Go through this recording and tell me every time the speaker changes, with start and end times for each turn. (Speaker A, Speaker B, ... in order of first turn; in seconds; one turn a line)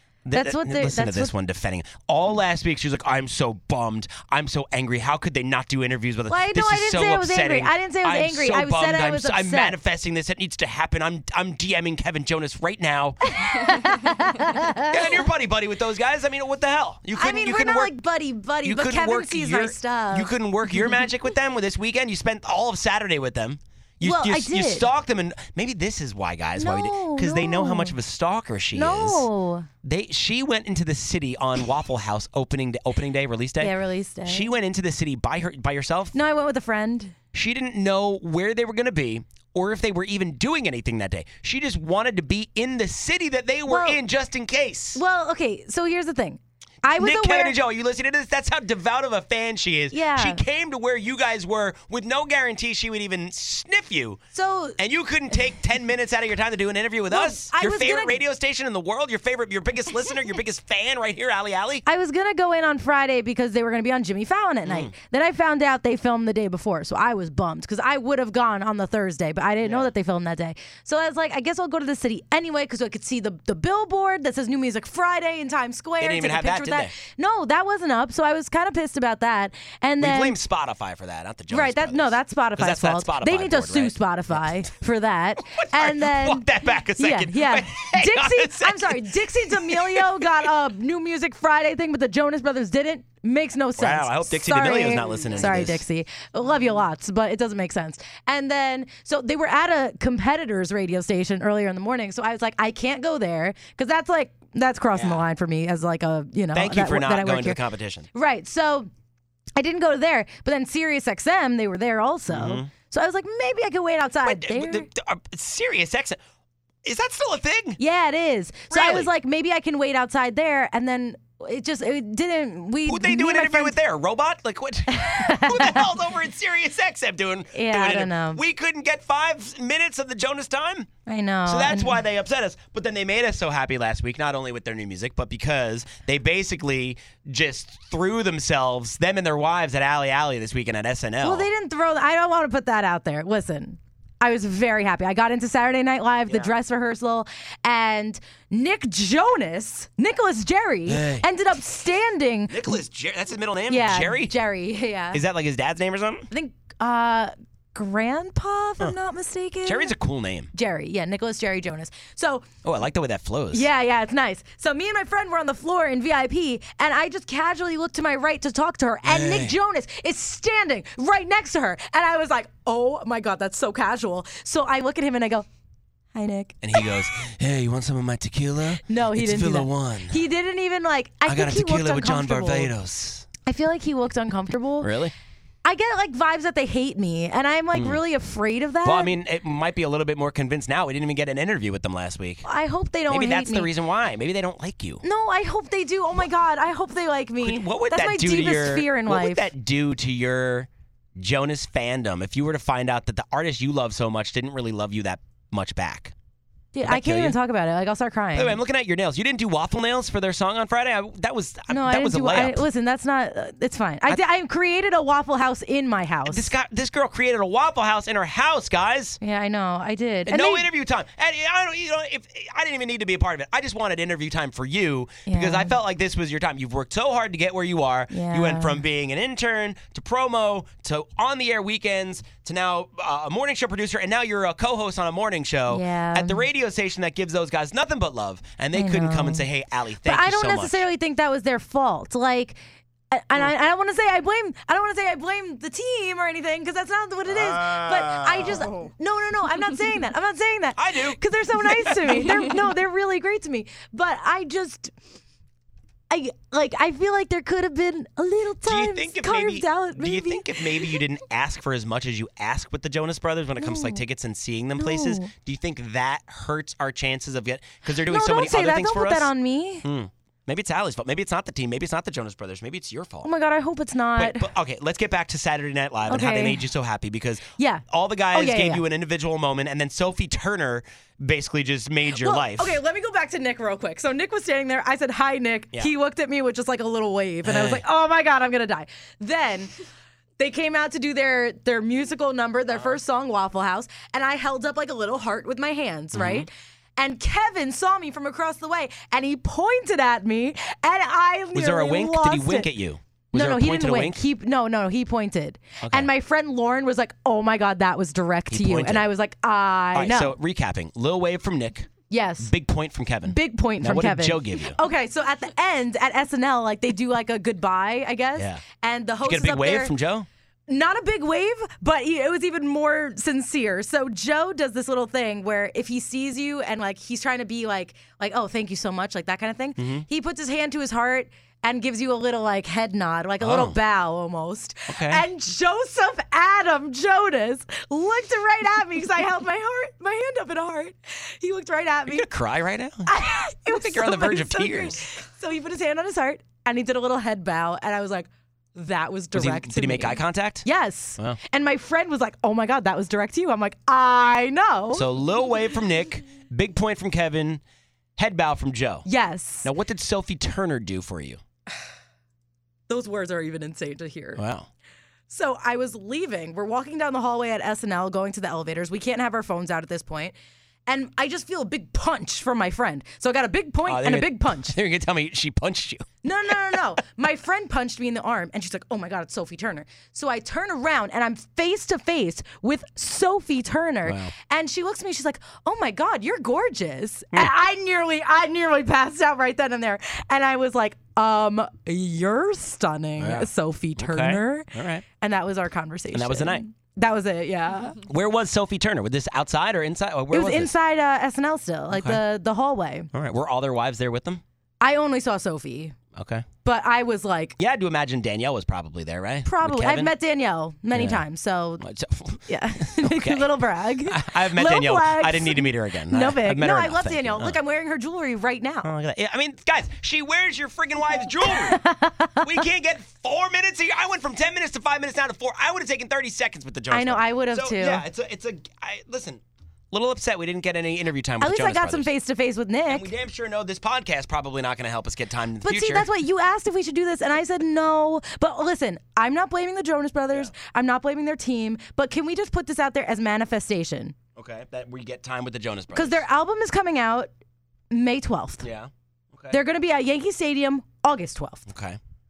Speaker A: 0.3-13.7
Speaker B: 0.3-1.3
Speaker B: 6.3-9.8
Speaker B: 13.2-15.3
Speaker A: 14.8-17.9
Speaker B: 17.1-20.3
Speaker A: 18.6-29.3
Speaker B: 24.0-24.9
Speaker B: 26.6-28.0
Speaker B: 28.7-29.7
Speaker A: 29.8-33.7
Speaker B: 33.6-34.5
Speaker A: 34.2-36.2
Speaker B: 36.1-37.1
Speaker A: 37.3-45.0
Speaker B: 43.6-44.0
Speaker B: 45.0-47.6
Speaker A: 46.9-54.2
Speaker B: 49.9-50.4
Speaker B: 54.3-54.8
Speaker A: 54.8-61.9
Speaker B: 57.1-58.2
Speaker B: 61.9-80.4
Speaker A: 64.7-64.9
Speaker A: 69.6-69.9
Speaker A: 76.0-76.9
Speaker A: 80.0-84.7
Speaker B: 81.5-107.6
Speaker A: 85.4-90.5
Speaker A: 93.8-95.8
Speaker A: 104.9-105.2
Speaker A: 106.5-108.1
Speaker B: 108.1-108.9
Speaker B: 109.6-114.9
Speaker A: 112.3-112.7
Speaker A: 114.2-116.2
Speaker A: 116.8-117.8
Speaker B: 117.8-123.8
Speaker A: 118.7-119.1
Speaker A: 122.9-130.9
Speaker B: 124.9-126.0
Speaker B: 127.5-128.4
Speaker B: 131.1-132.0
Speaker A: 131.5-141.5
Speaker B: 141.2-152.8
Speaker A: 150.9-151.2
Speaker A: 152.5-154.3
Speaker B: 153.7-155.2
Speaker A: 155.1-156.3
Speaker B: 156.3-159.9
Speaker A: 159.7-160.5
Speaker B: 160.5-162.4
Speaker A: 162.6-163.7
Speaker B: 163.5-175.5
Speaker A: 169.1-169.6
Speaker B: 176.1-177.0
Speaker A: 176.6-180.2
Speaker B: 178.8-182.7
Speaker A: 181.3-183.3
Speaker B: 183.5-185.0
Speaker A: 184.8-185.1
Speaker B: 185.7-189.2
Speaker A: 187.7-188.0
Speaker A: 188.8-192.5
Speaker B: 192.4-193.7
Speaker A: 193.1-195.0
Speaker B: 195.0-199.5
Speaker A: 197.4-206.1
Speaker B: 206.7-208.6
Speaker A: 206.8-207.4
Speaker A: 208.3-212.7
Speaker B: 211.7-216.5
Speaker A: 216.3-219.2
Speaker B: 219.2-220.7
Speaker A: 220.3-240.8
Speaker B: 225.3-225.8
Speaker B: 228.1-228.8
Speaker B: 235.7-236.5
Speaker B: 238.7-239.5
Speaker B: 240.0-242.6
Speaker B: 243.1-254.9
Speaker A: 247.3-248.8
Speaker A: 250.8-252.6
Speaker B: 256.1-261.0
Speaker A: 258.6-269.3
Speaker B: 263.6-264.0
Speaker B: 264.8-265.3
Speaker B: 267.9-269.9
Speaker A: 269.8-273.3
Speaker B: 273.2-274.5
Speaker A: 274.2-282.8
Speaker B: 276.1-276.7
Speaker B: 277.6-278.8
Speaker B: 282.1-289.7
Speaker A: 287.4-287.8
Speaker B: 290.4-302.7
Speaker A: 292.7-293.0
Speaker A: 296.1-296.5
Speaker A: 301.5-304.2
Speaker B: 303.3-310.4
Speaker A: 305.8-306.1
Speaker A: 308.5-309.1
Speaker A: 309.9-311.9
Speaker B: 312.1-312.5
Speaker A: 312.4-314.8
Speaker B: 313.2-319.9
Speaker A: 318.4-318.6
Speaker A: 319.2-320.3
Speaker B: 320.7-342.3
Speaker A: 329.8-330.0
Speaker A: 333.4-333.8
Speaker A: 334.9-335.2
Speaker A: 342.1-343.1
Speaker B: 343.1-355.1
Speaker A: 343.7-345.1
Speaker A: 349.3-350.7
Speaker A: 354.9-357.6
Speaker A: 358.2-359.1
Speaker B: 359.1-359.7
Speaker A: 359.6-361.4
Speaker B: 362.9-364.4
Speaker A: 364.4-364.7
Speaker B: 365.3-370.4
Speaker B: 370.9-374.8
Speaker A: 373.9-376.8
Speaker B: 376.2-398.0
Speaker A: 384.1-384.3
Speaker A: 393.2-395.1
Speaker A: 396.1-396.6
Speaker A: 398.0-400.7
Speaker B: 400.3-403.1
Speaker A: 401.9-402.2
Speaker A: 403.1-404.4
Speaker B: 404.8-405.9
Speaker A: 406.2-406.5
Speaker B: 406.6-407.6
Speaker A: 407.6-410.1
Speaker B: 409.4-411.8
Speaker A: 410.9-411.2
Speaker A: 411.8-413.5
Speaker B: 412.5-418.9
Speaker A: 414.1-417.6
Speaker A: 418.8-421.8
Speaker B: 421.4-422.6
Speaker A: 422.4-432.1
Speaker B: 426.9-428.1
Speaker B: 431.4-433.1
Speaker A: 432.9-436.1
Speaker B: 435.6-444.1
Speaker A: 444.4-446.2
Speaker B: 445.9-447.3
Speaker B: 447.9-448.7
Speaker A: 448.6-449.6
Speaker B: 449.5-451.7
Speaker A: 451.7-452.0